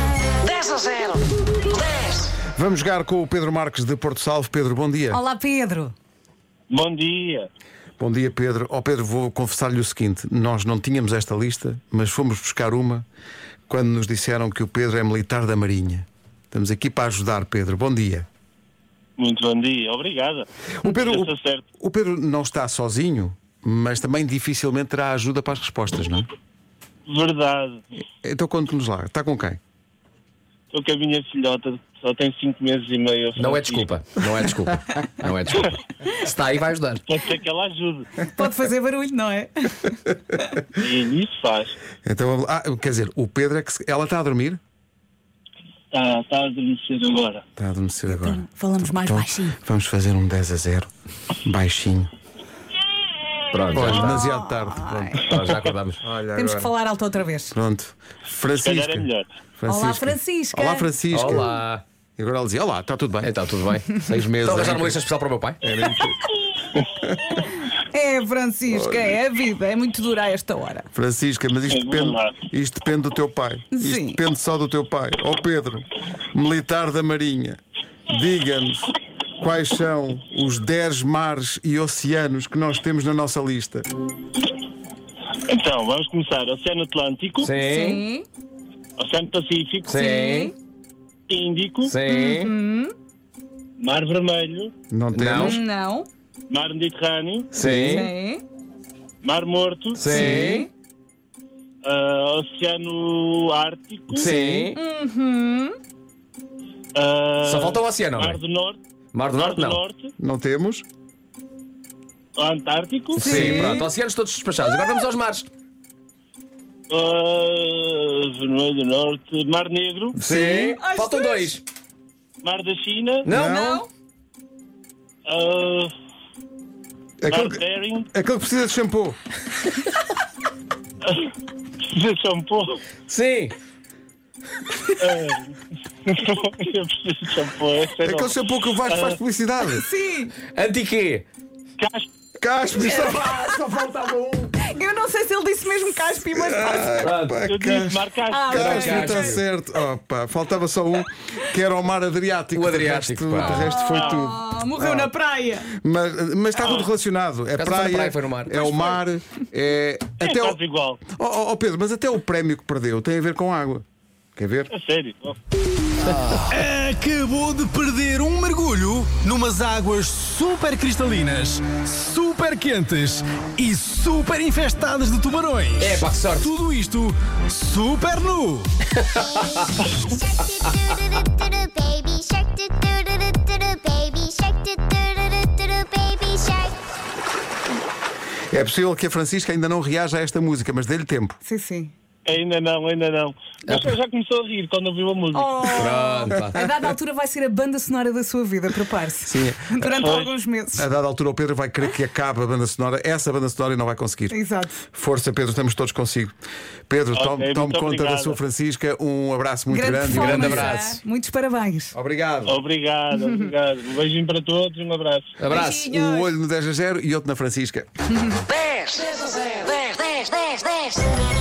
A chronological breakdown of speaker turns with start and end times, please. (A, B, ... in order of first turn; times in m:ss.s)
0:00.4-0:02.2 A
0:02.6-0:05.2 B
0:05.1-0:05.9 C
0:06.7-0:07.5 D
0:08.0-0:13.1 B
0:13.7-0:18.3 B
0:19.2-0:21.6 D
0:20.8-0:26.3 B
0:27.1-0:27.8 D
0:28.2-0:29.6 B
0:30.7-0:33.9 D
0:33.4-0:37.0 E
0:37.1-0:38.1 D
0:38.3-0:40.0 C
0:40.8-0:41.8 D
0:42.0-0:44.6 B
0:45.9-0:47.4 D
0:47.6-0:50.9 B
0:48.1-0:49.6 C
0:51.4-0:52.1 B
0:53.5-0:54.2 E
0:53.7-0:56.7 B
0:53.8-0:55.2 C
0:55.2-0:56.0 E
0:56.3-0:57.5 C
0:57.5-0:59.1 B
0:58.6-0:59.3 D
0:59.6-1:01.6 B
0:59.7-1:00.9 C
1:01.1-1:01.8 E
1:02.2-1:03.3 B
1:03.2-1:05.6 E
1:04.1-1:05.0 B
1:05.6-1:07.4 B
1:07.7-1:10.9 C
1:08.7-1:09.2 B
1:10.9-1:23.9 B
1:11.7-1:12.4 D
1:13.7-1:14.2 C
1:25.5-1:27.5 D
1:27.4-1:28.0 E
1:27.6-1:28.3 C
1:29.0-1:29.9 D
1:29.8-1:30.5 E
1:29.9-1:30.5 C
1:31.3-1:31.9 D
1:31.8-1:32.5 E
1:32.1-1:32.9 C
1:33.8-1:34.7 D
1:34.9-1:35.6 B
1:35.1-1:35.6 E
1:35.4-1:36.1 C
1:36.5-1:37.5 D
1:37.5-1:38.1 E
1:37.6-1:38.4 C
1:39.2-1:40.1 D
1:40.0-1:40.7 E
1:40.1-1:40.7 C
1:41.8-1:44.3 D
1:44.1-1:44.8 E
1:44.2-1:45.8 C
1:47.0-1:48.8 D
1:47.4-1:48.4 E
1:49.1-1:49.8 E
1:49.4-1:50.1 D
1:50.2-1:50.9 B
1:52.4-1:53.3 D
1:53.2-1:55.5 E
1:53.2-1:53.9 C
1:53.3-1:53.8 B
1:56.9-2:00.2 D
2:00.2-2:01.6 E
2:00.2-2:01.5 C
2:02.4-2:03.3 D
2:03.2-2:03.7 E
2:03.3-2:03.8 B
2:03.4-2:03.9 C
2:05.3-2:05.9 D
2:07.2-2:07.6 B
2:07.3-2:08.1 D
2:08.1-2:09.2 B
2:11.0-2:11.3 D
2:11.8-2:12.8 D
2:13.1-2:13.6 E
2:15.0-2:19.2 D
2:18.0-2:19.9 B
2:19.7-2:20.3 C
2:20.5-2:21.3 E
2:21.8-2:22.1 D
2:22.4-2:24.6 B
2:22.9-2:23.6 C
2:24.6-2:27.1 C
2:26.3-2:35.1 B
2:27.0-2:27.4 E
2:27.5-2:28.8 D
2:28.3-2:29.4 C
2:28.6-2:29.4 E
2:32.6-2:33.7 E
2:33.4-2:35.7 C
2:33.9-2:34.2 D
2:35.7-2:43.8 B
2:36.6-2:36.9 D
2:37.6-2:38.9 E
2:40.2-2:41.0 D
2:44.4-2:44.7 B
2:44.7-2:45.4 D
2:46.0-2:46.4 E
2:46.5-2:58.7 F
2:55.8-2:56.5 E
2:59.0-2:59.9 E
3:00.2-3:06.8 G
3:08.5-3:11.4 B
3:11.4-3:11.9 C
3:12.3-3:16.0 D
3:13.7-3:13.9 E
3:15.3-3:20.9 C
3:15.7-3:16.6 E
3:19.2-3:20.2 B
3:20.0-3:20.3 D
3:20.8-3:24.4 B
3:24.3-3:24.8 C
3:24.9-3:26.4 B
3:26.9-3:30.8 B
3:27.1-3:28.4 D
3:29.7-3:32.0 C
3:30.1-3:31.0 E
3:32.0-3:32.6 B
3:32.5-3:35.4 D
3:35.4-3:35.9 E
3:35.5-3:36.3 C
3:35.6-3:37.9 B
3:38.5-3:41.0 A
3:39.2-3:39.7 E